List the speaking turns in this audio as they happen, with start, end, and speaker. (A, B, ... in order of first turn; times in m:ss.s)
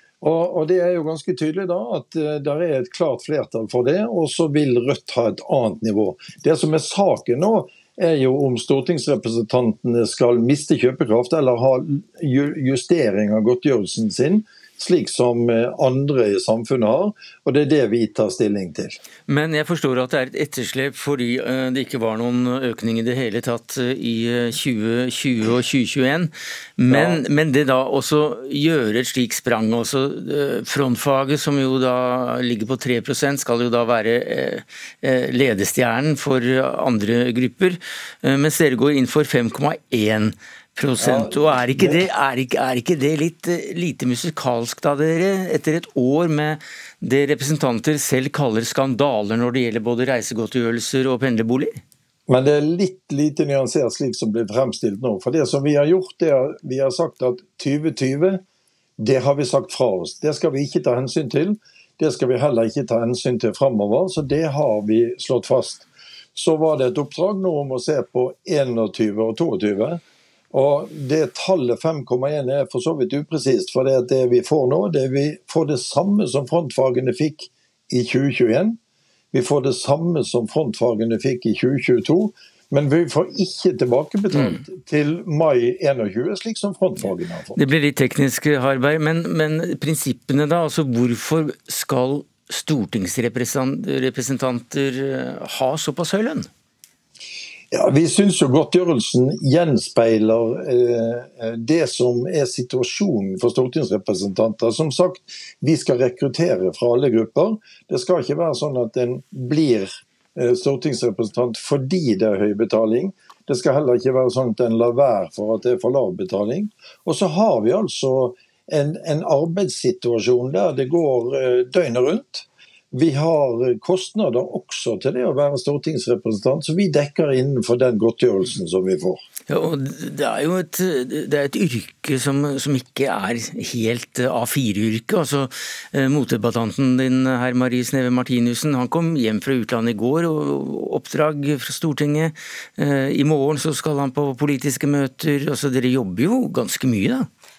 0:00.2-0:19.0 A
0:19.3-0:51.8 B
0:26.9-0:27.2 A
0:41.0-0:42.0 A
0:52.3-0:58.4 A
0:59.0-1:10.0 A
1:10.5-1:18.8 A
1:19.3-1:27.6 A
1:24.3-1:24.6 B
1:27.6-1:36.5 B
1:37.7-2:09.2 A
2:09.5-2:27.3 B